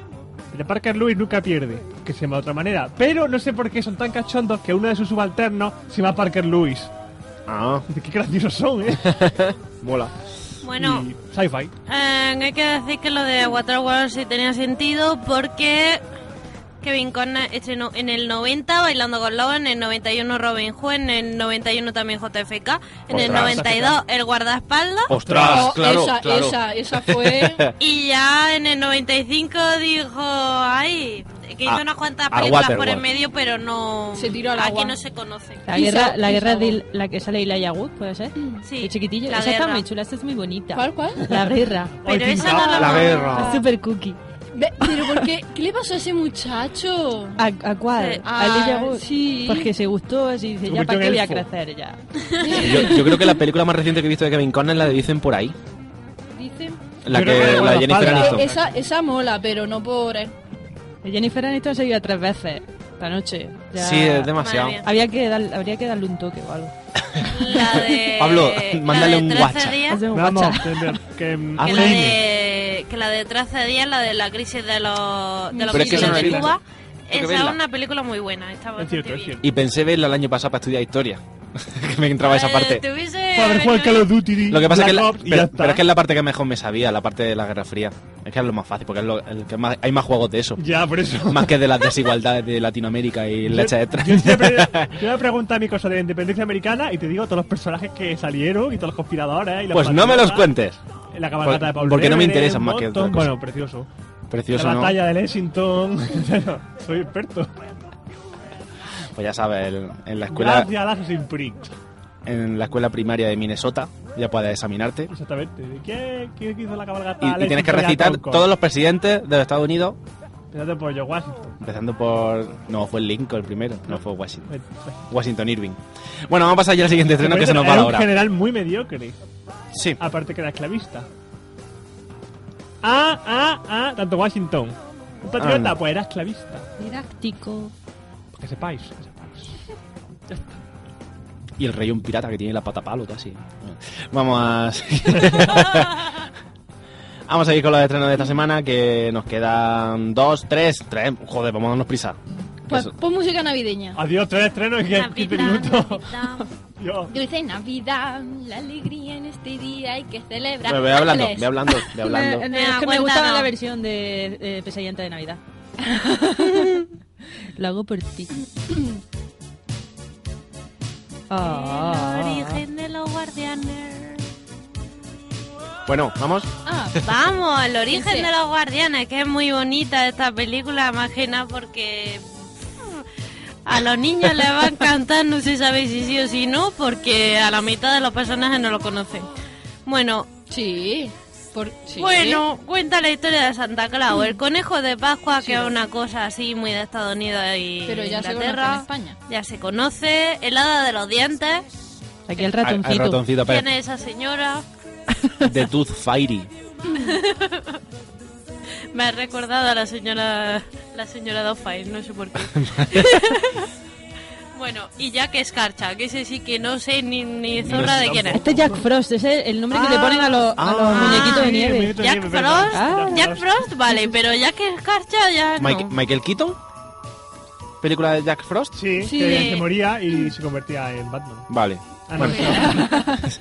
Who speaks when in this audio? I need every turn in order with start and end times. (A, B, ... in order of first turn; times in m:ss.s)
0:00.5-0:06.9 A
0:07.5-0:07.9 B
0:07.9-0:09.2 A
0:09.0-0:10.1 B
0:10.6-0:11.1 C
0:10.8-0:11.7 A
0:11.9-0:16.0 C
0:16.8-0:25.1 C
0:23.1-0:23.7 B
0:23.1-0:24.0 A
0:25.1-0:27.7 B
0:25.2-0:25.8 A
0:25.4-0:27.6 D
0:27.8-0:35.6 C
0:31.7-0:33.0 B
0:34.1-0:35.0 D
0:35.7-0:42.0 E
0:35.7-0:36.8 D
0:38.6-0:39.8 C
0:40.7-0:41.3 D
0:41.3-0:43.3 A
0:42.1-0:43.4 C
0:42.7-0:43.6 B
0:43.1-0:43.6 D
0:43.3-0:44.2 E
0:44.5-0:47.4 D
0:44.8-0:45.2 E
0:47.4-0:52.0 E
0:48.0-0:48.3 C
0:48.3-0:49.7 D
0:50.6-0:51.5 A
0:52.4-0:53.3 D
0:52.6-0:55.6 B
0:56.4-0:56.8 D
0:57.0-0:58.5 B
0:57.1-0:58.6 A
0:57.4-1:00.3 D
1:01.0-1:06.7 E
1:03.8-1:04.8 B
1:04.4-1:04.9 C
1:07.3-1:10.0 C
1:08.2-1:09.8 B
1:09.9-1:11.0 E
1:10.1-1:12.2 A
1:11.6-1:12.2 B
1:11.6-1:19.4 C
1:15.7-1:16.6 B
1:15.8-1:16.5 A
1:17.1-1:17.6 B
1:18.8-1:19.4 A
1:19.4-1:22.8 B
1:22.2-1:24.2 C
1:23.4-1:25.8 A
1:24.5-1:30.6 B
1:30.6-1:31.6 A
1:31.3-1:35.0 B
1:33.5-1:40.5 A
1:39.7-1:40.8 B
1:41.1-1:43.9 A
1:41.4-1:43.4 B
1:44.3-1:45.0 B
1:44.5-1:47.6 A
1:49.2-1:50.7 B
1:50.3-1:51.8 A
1:52.2-1:55.1 B
1:55.1-1:58.5 A
1:57.2-2:00.0 B
2:00.5-2:01.5 A
2:01.6-2:04.5 B
2:03.9-2:05.0 A
2:05.1-2:08.1 B
2:07.2-2:09.2 A
2:09.7-2:10.0 B
2:10.0-2:11.1 A
2:12.8-2:16.7 A
2:15.4-2:15.8 B
2:16.8-2:17.7 E
2:18.3-2:19.6 A
2:20.3-2:20.6 A
2:21.6-2:26.2 B
2:27.3-2:32.2 B
2:32.7-2:34.0 D
2:34.0-2:36.1 A
2:34.9-2:36.5 C
2:36.8-2:37.1 A
2:37.1-2:41.8 D
2:40.7-2:42.5 B
2:42.0-2:45.4 E
2:42.5-2:43.5 C
2:45.9-2:46.6 D
2:47.6-2:48.4 E
2:51.3-2:52.6 E
2:51.4-2:54.2 C
2:55.9-2:56.5 B
2:56.7-2:57.0 D
2:57.0-3:02.3 C
2:57.9-2:58.3 D
3:02.8-3:03.0 C
3:03.6-3:09.3 C
3:09.9-3:10.3 C
3:10.5-3:12.4 D
3:12.0-3:21.6 C
3:15.4-3:15.7 D
3:17.9-3:19.2 D
3:22.3-3:23.2 E
3:22.6-3:23.7 B
3:23.4-3:24.6 C
3:25.4-3:26.5 B
3:26.9-3:27.8 C
3:28.9-3:33.7 C
3:32.5-3:33.2 B
3:34.5-3:38.4 C
3:37.6-3:38.9 A
3:37.7-3:38.4 B
3:38.3-3:42.0 E
3:39.7-3:43.5 A
3:40.6-3:41.4 B
3:40.9-3:45.9 C
3:42.7-3:43.2 E
3:45.6-3:46.6 B
3:47.8-3:48.8 B
3:48.7-3:51.5 A
3:49.0-3:49.6 D
3:49.2-3:49.7 C
3:51.5-3:52.6 B
3:52.1-3:53.0 A
3:52.2-3:53.3 D